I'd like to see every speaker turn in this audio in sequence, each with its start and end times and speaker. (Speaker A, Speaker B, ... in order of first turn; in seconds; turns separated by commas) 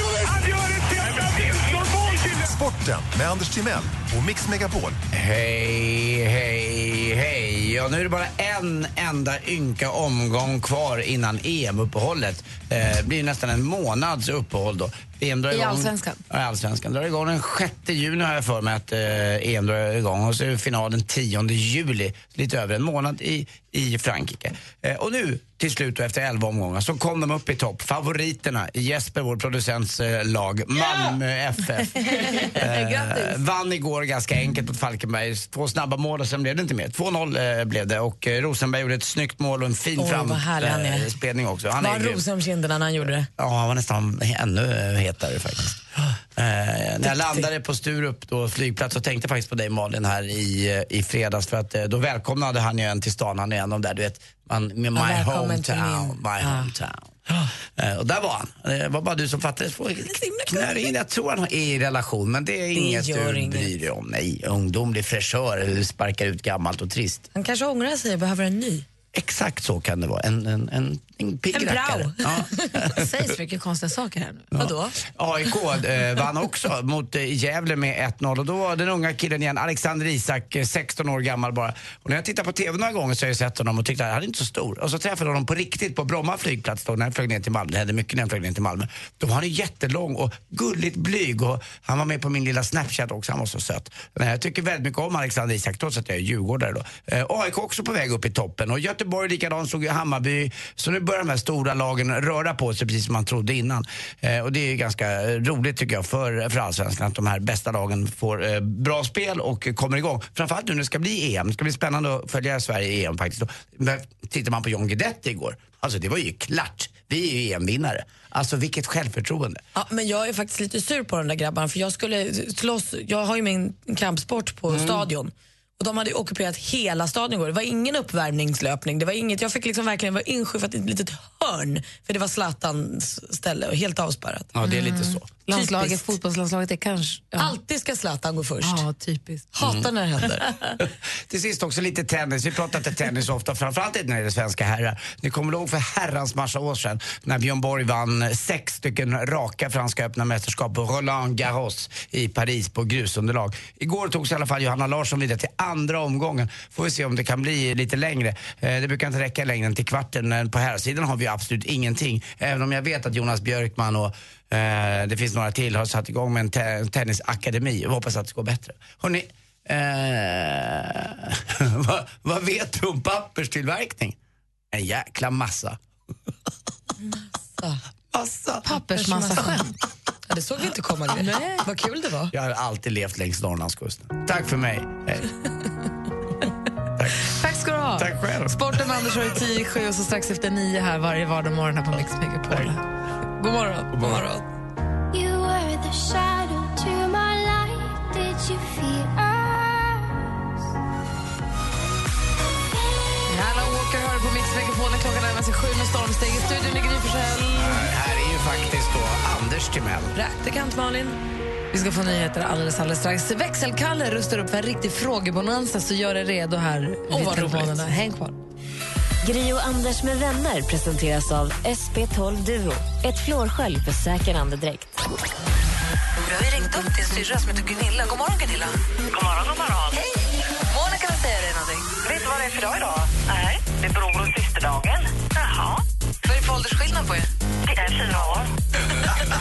Speaker A: 1.4-5.0, Speaker B: 5.1-42.2, Speaker C: 15.5-16.2, Speaker C: 32.0-33.3, Speaker D: 40.0-41.1, Speaker D: 41.8-43.3, Speaker B: 43.4-67.3, Speaker D: 47.0-47.5, Speaker D: 55.0-56.7, Speaker D: 60.0-60.8, Speaker D: 62.8-63.7, Speaker D: 67.3-68.8, Speaker B: 69.1-73.1, Speaker D: 71.5-72.4, Speaker C: 72.9-74.5, Speaker D: 74.6-75.0, Speaker B: 74.6-119.6, Speaker D: 119.8-134.5, Speaker B: 124.7-125.1, Speaker B: 134.5-135.3, Speaker C: 134.7-137.5, Speaker D: 135.5-136.0, Speaker D: 137.4-138.8, Speaker C: 138.6-139.5, Speaker D: 139.5-140.5, Speaker B: 139.6-139.9, Speaker B: 140.8-174.2, Speaker B: 174.7-175.8, Speaker D: 177.0-177.8, Speaker B: 178.1-178.7, Speaker C: 178.7-179.7, Speaker D: 179.0-179.7, Speaker D: 180.3-182.3, Speaker C: 181.2-181.6, Speaker B: 182.3-185.3, Speaker B: 187.0-187.3, Speaker C: 187.4-192.8, Speaker B: 188.0-188.8, Speaker C: 193.4-193.9, Speaker D: 193.9-194.4, Speaker B: 194.0-194.2, Speaker E: 195.1-200.5, Speaker C: 203.3-207.8, Speaker B: 207.6-210.2, Speaker D: 210.2-211.2, Speaker C: 211.7-218.4, Speaker D: 217.1-217.8, Speaker F: 219.2-224.9, Speaker C: 226.2-228.8, Speaker G: 229.1-230.0, Speaker C: 229.9-231.9, Speaker G: 232.1-232.9, Speaker G: 233.7-235.7, Speaker C: 236.2-237.3, Speaker G: 237.7-238.5